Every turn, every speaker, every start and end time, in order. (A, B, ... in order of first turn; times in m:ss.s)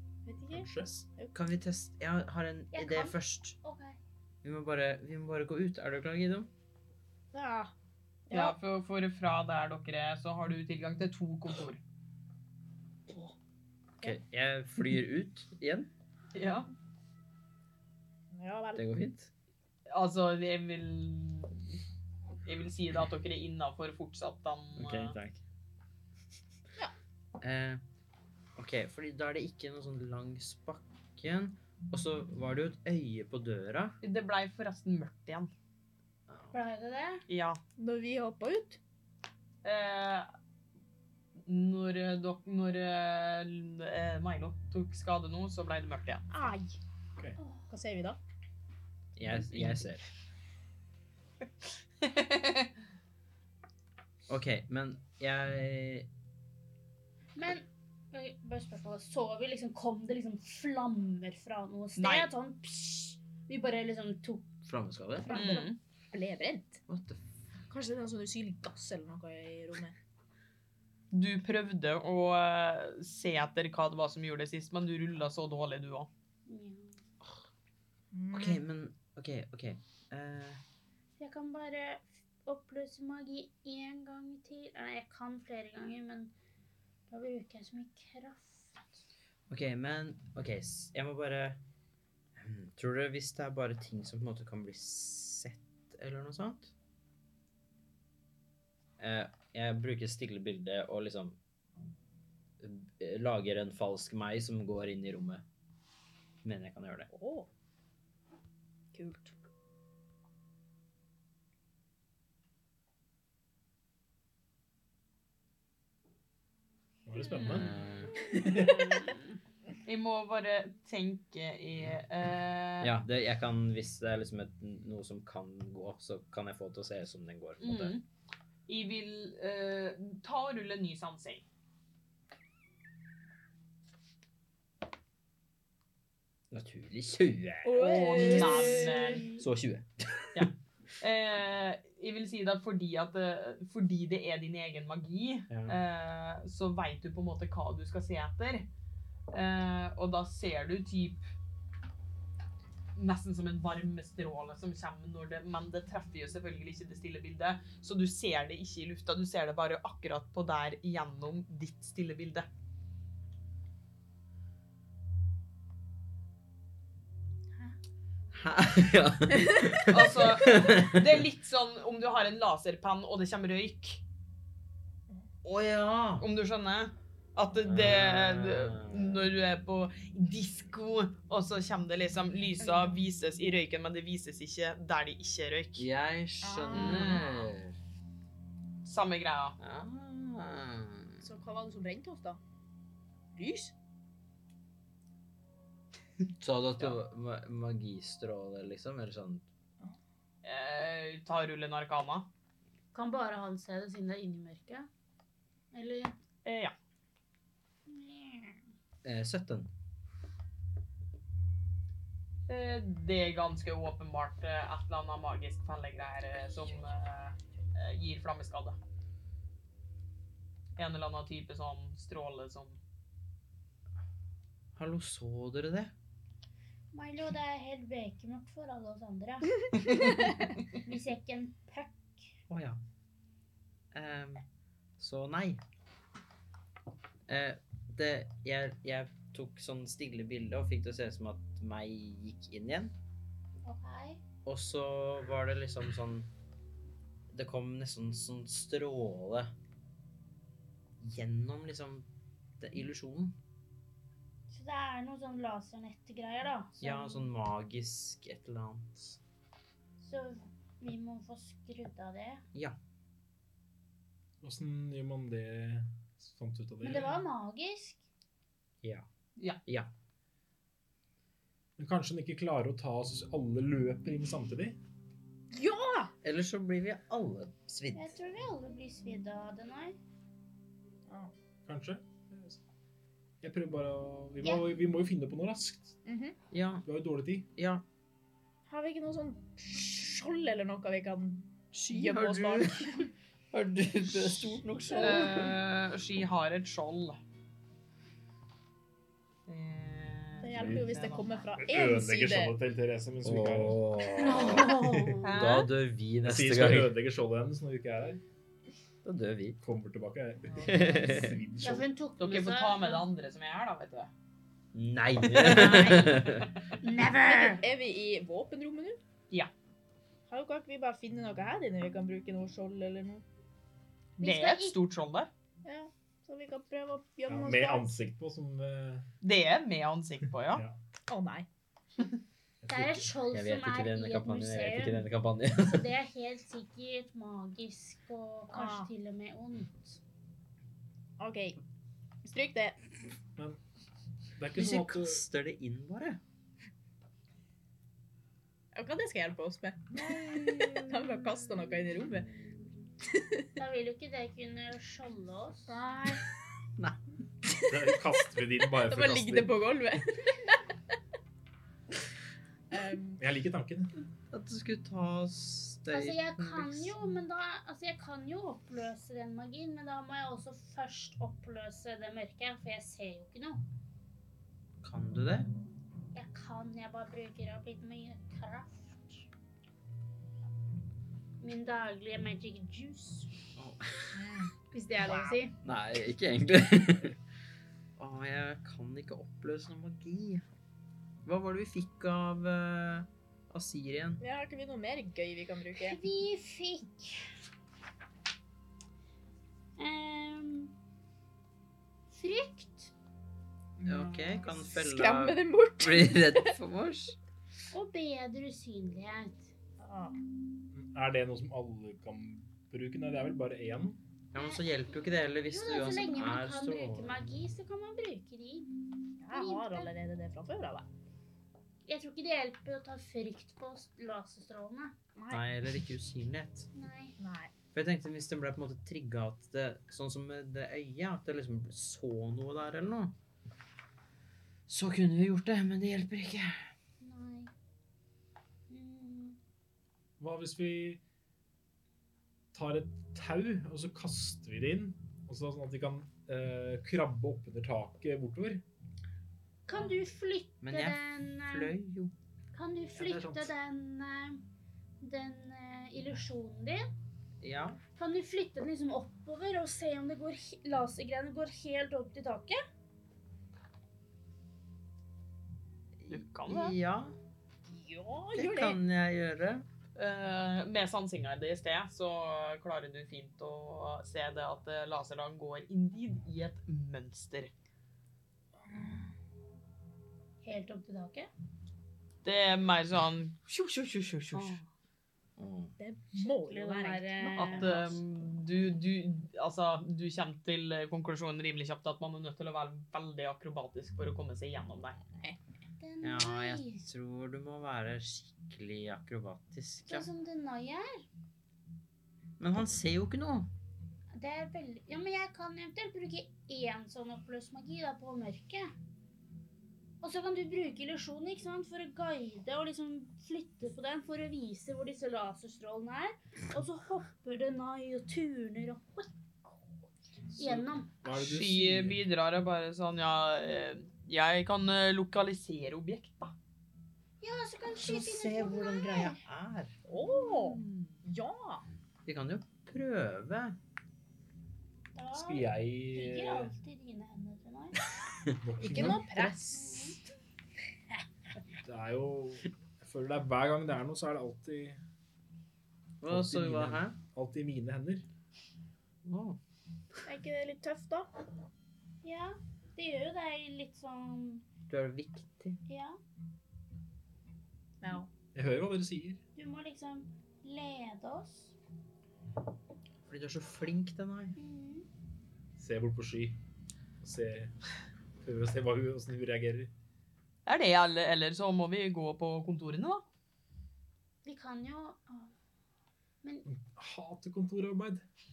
0:00.3-0:01.3 A
0:00.5-0:01.1 B
0:01.3-0:03.6 C
0:02.7-0:04.0 D
0:04.4-0:06.5 C
0:07.3-0:07.7 A
0:08.3-0:08.6 A
0:08.3-0:11.8 E
0:13.1-0:13.4 A
0:14.0-0:15.9 C
0:16.3-0:16.7 E
0:18.3-0:18.8 A
0:18.8-0:19.3 C
0:19.9-0:21.6 E
0:22.4-0:25.2 E
0:24.8-0:25.4 C
0:27.4-0:27.8 C
0:28.6-0:34.0 C
0:34.0-0:35.5 E
0:36.3-0:36.5 C
0:36.5-0:37.2 D
0:37.3-0:37.6 E
0:37.8-0:38.8 A
0:39.6-0:40.3 E
0:41.5-0:46.3 E
0:46.3-0:46.8 A
0:47.4-0:47.7 D
0:47.7-0:48.2 A
0:49.2-0:50.0 C
0:49.3-0:49.9 E
0:52.0-0:52.7 E
0:54.3-0:56.1 C
0:57.4-1:04.5 D
1:02.0-1:02.3 E
1:04.6-1:05.6 C
1:05.3-1:06.8 A
1:05.3-1:05.8 E
1:06.9-1:07.2 C
1:07.7-1:10.0 A
1:11.1-1:16.1 E
1:16.5-1:17.0 D
1:18.1-1:18.6 A
1:18.3-1:20.6 C
1:21.2-1:26.3 D
1:27.1-1:29.0 D
1:29.5-1:31.6 C
1:32.4-1:36.7 C
1:39.0-1:41.4 C
1:42.6-1:45.4 C
1:46.4-1:47.1 C
1:47.1-1:47.5 A
1:48.9-1:49.4 A
1:57.1-1:57.7 B
1:57.5-1:58.2 C
1:59.9-2:02.9 E
2:02.8-2:08.0 C
2:07.6-2:08.0 E
2:08.7-2:11.4 E
2:16.5-2:20.5 C
2:17.6-2:19.4 A
2:17.8-2:19.4 E
2:20.3-2:28.7 E
2:25.5-2:25.8 C
2:29.3-2:31.2 E
2:33.0-2:42.5 E
2:48.3-2:51.2 C
2:49.4-2:49.8 A
2:49.9-2:54.0 E
2:55.4-2:56.3 C
2:56.2-3:05.9 E
2:57.6-2:59.2 C
3:02.6-3:03.0 A
3:05.8-3:07.8 C
3:06.4-3:07.3 A
3:06.7-3:07.3 E
3:08.8-3:09.6 E
3:09.6-3:11.3 C
3:11.2-3:12.4 A
3:13.4-3:13.7 A
3:16.4-3:19.5 C
3:20.4-3:22.3 E
3:22.9-3:24.9 D
3:25.7-3:26.1 D
3:26.4-3:26.7 E
3:27.9-3:28.6 D
3:29.0-3:29.7 C
3:32.5-3:38.8 E
3:40.8-3:42.8 E
3:44.8-3:45.9 C
3:46.9-3:52.3 D
3:52.5-3:52.8 C
3:53.9-3:54.4 C
3:55.0-3:55.6 C
3:57.3-4:03.0 C
4:03.6-4:04.2 D
4:04.4-4:06.3 C
4:07.3-4:09.5 C
4:11.0-4:12.1 C
4:12.6-4:13.4 C
4:14.5-4:17.3 D
4:16.8-4:19.2 C
4:20.0-4:22.4 D
4:24.4-4:27.2 B
4:26.8-4:28.0 D
4:31.8-4:34.8 B
4:35.5-4:36.1 A
4:36.2-4:38.1 C
4:37.9-4:40.0 D
4:41.7-4:42.6 B
4:43.4-4:46.0 B
4:46.1-4:46.4 A
4:46.5-4:46.9 C
4:46.9-4:47.5 B
4:47.6-4:47.8 C
4:48.7-4:53.1 A
4:51.7-4:53.0 C
4:53.5-4:55.5 C
4:55.0-4:57.2 E
4:59.5-5:01.5 E
5:00.4-5:02.6 A
5:00.5-5:01.0 B
5:01.6-5:03.8 B
5:03.2-5:06.9 C
5:04.2-5:05.4 D
5:05.2-5:05.7 E
5:06.2-5:08.2 B
5:09.0-5:09.6 C
5:09.6-5:11.9 B
5:10.5-5:11.1 E
5:10.6-5:11.4 C
5:11.6-5:13.1 D
5:12.2-5:14.1 E
5:14.7-5:16.5 C
5:15.3-5:17.6 D
5:17.2-5:19.0 A
5:20.3-5:23.2 A
5:24.2-5:25.3 E
5:24.2-5:24.8 D
5:25.6-5:28.0 A
5:27.3-5:29.1 B
5:29.2-5:30.6 E
5:31.1-5:31.5 A
5:32.6-5:33.1 B
5:32.7-5:40.0 D
5:33.3-5:35.9 C
5:38.5-5:38.9 A
5:41.2-5:41.6 A
5:42.2-5:42.8 A
5:44.4-5:45.2 B
5:44.6-5:46.2 C
5:48.7-5:52.3 A
5:53.1-5:53.5 A
5:53.6-5:55.8 D
5:55.7-5:56.2 A
5:57.7-5:59.5 B
5:58.8-6:00.6 A
6:02.7-6:03.2 A
6:03.2-6:03.9 B
6:04.3-6:06.9 C
6:05.9-6:13.6 D
6:14.8-6:15.5 C
6:16.1-6:19.2 D
6:21.4-6:23.3 D
6:23.6-6:24.1 C
6:24.1-6:24.5 A
6:24.7-6:25.6 D
6:25.1-6:25.4 A
6:25.6-6:27.2 C
6:28.0-6:30.5 C
6:31.2-6:34.2 C
6:34.2-6:36.0 A
6:35.8-6:37.4 D
6:39.8-6:40.7 D
6:42.1-6:42.9 D
6:43.8-6:46.5 A
6:43.8-6:47.2 C
6:47.7-6:49.5 D
6:49.8-6:50.2 A
6:50.7-6:54.0 B
6:54.3-6:57.3 C
6:54.4-6:58.7 D
6:59.2-7:00.9 A
6:59.3-6:59.9 D
7:01.9-7:05.0 D
7:05.2-7:05.4 A
7:05.3-7:06.7 C
7:06.7-7:07.2 D
7:07.2-7:07.5 A
7:07.7-7:13.2 C
7:14.7-7:16.7 C
7:17.0-7:17.5 D
7:18.7-7:19.4 D
7:20.2-7:21.0 B
7:22.5-7:28.6 B
7:29.7-7:31.8 D
7:30.6-7:32.1 C
7:32.5-7:34.4 D
7:33.0-7:33.5 C
7:35.0-7:36.8 D
7:37.4-7:37.8 C
7:38.0-7:42.6 D
7:46.0-7:47.2 C
7:46.1-7:46.8 E
7:47.7-7:48.8 A
7:48.3-7:49.7 C
7:50.0-7:57.5 E
8:00.4-8:01.3 D
8:02.2-8:04.6 E
8:04.3-8:04.6 D
8:05.4-8:05.8 C
8:05.8-8:08.0 A
8:06.2-8:08.0 D
8:07.4-8:15.0 E
8:15.8-8:16.8 D
8:16.0-8:20.1 C
8:19.9-8:21.0 D
8:22.4-8:23.5 C
8:24.2-8:28.7 D
8:30.0-8:39.1 D
8:40.3-8:40.9 D
8:40.4-8:42.0 B
8:41.1-8:46.4 E
8:47.2-8:49.2 D
8:47.8-8:50.9 C
8:49.9-8:51.6 A
8:52.0-8:53.6 C
8:55.0-8:57.9 D
8:55.2-8:56.5 B
8:58.4-8:59.1 B
8:58.6-9:00.0 A
8:58.6-8:59.5 C
8:59.5-9:00.0 D
9:01.6-9:04.8 B
9:06.0-9:07.0 C
9:06.1-9:08.0 B
9:09.0-9:09.4 C
9:10.0-9:11.1 A
9:12.0-9:14.5 D
9:14.7-9:15.6 C
9:15.7-9:16.0 D
9:17.8-9:18.1 A
9:18.4-9:19.2 B
9:19.4-9:21.6 D
9:23.1-9:24.4 C
9:24.4-9:24.9 D
9:25.6-9:26.4 B
9:27.0-9:27.5 B
9:28.2-9:29.7 B
9:30.5-9:33.0 E
9:34.2-9:35.3 D
9:36.5-9:38.0 B